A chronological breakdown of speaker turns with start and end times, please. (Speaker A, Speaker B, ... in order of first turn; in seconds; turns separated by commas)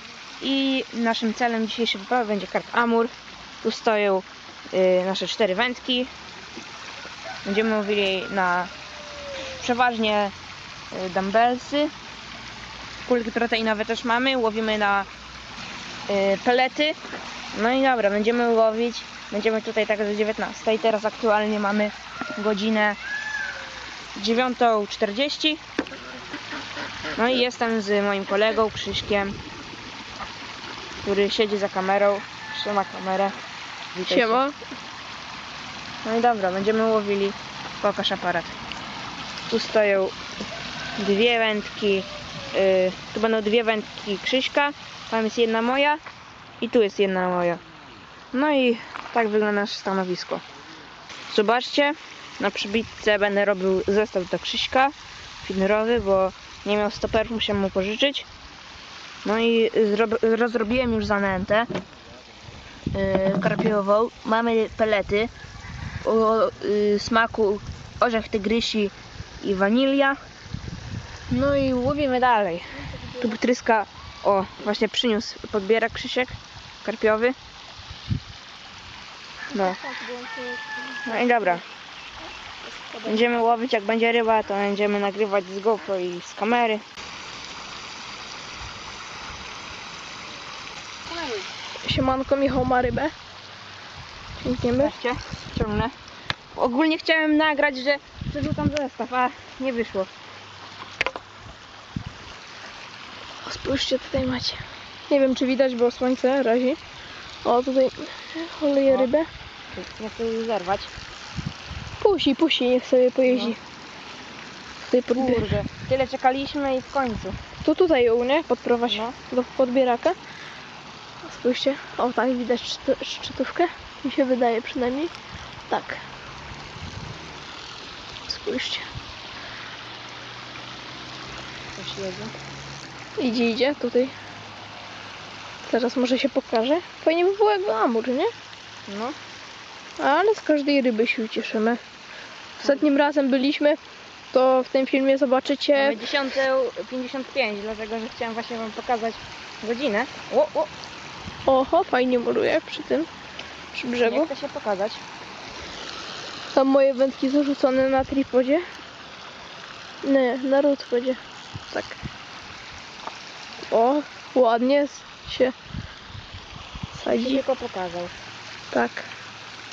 Speaker A: 0.4-6.1, Speaker A: 7.5-8.7, Speaker A: 9.6-10.3, Speaker A: 10.9-11.9, Speaker A: 13.1-15.1, Speaker A: 16.1-17.0, Speaker A: 17.5-23.0, Speaker A: 24.1-25.6, Speaker A: 27.2-29.4, Speaker A: 31.0-33.4, Speaker A: 34.0-34.4, Speaker B: 34.1-34.6, Speaker A: 36.0-38.5, Speaker A: 39.5-40.1, Speaker A: 41.0-46.0, Speaker A: 46.6-47.6, Speaker A: 48.3-50.4, Speaker A: 51.3-58.3, Speaker A: 59.2-61.7, Speaker A: 62.9-65.3, Speaker A: 66.0-70.2, Speaker A: 71.3-77.4, Speaker B: 72.7-73.4, Speaker B: 79.5-81.6, Speaker A: 79.5-79.8, Speaker A: 81.0-81.6, Speaker B: 82.6-83.3, Speaker A: 83.1-86.8, Speaker A: 91.1-91.5, Speaker B: 91.8-93.1, Speaker B: 94.4-95.0, Speaker A: 94.8-95.9, Speaker A: 96.5-100.1, Speaker B: 103.4-106.8, Speaker B: 107.4-109.3, Speaker A: 109.7-110.9, Speaker B: 112.0-113.6, Speaker A: 113.3-113.6, Speaker B: 114.9-115.6, Speaker A: 115.1-117.4, Speaker B: 117.6-120.2, Speaker B: 121.2-125.1, Speaker B: 125.7-126.0, Speaker B: 128.3-128.9, Speaker A: 131.8-132.3, Speaker B: 133.2-134.1, Speaker B: 135.7-138.3, Speaker A: 138.9-139.2, Speaker B: 140.0-141.8, Speaker B: 142.6-143.8, Speaker B: 144.3-146.1, Speaker A: 145.7-150.7, Speaker B: 151.5-153.1, Speaker B: 153.7-154.3, Speaker A: 154.0-155.0, Speaker B: 156.6-158.6, Speaker B: 160.0-162.0, Speaker B: 163.7-165.6, Speaker B: 166.9-167.4, Speaker A: 167.1-168.1, Speaker B: 168.7-169.1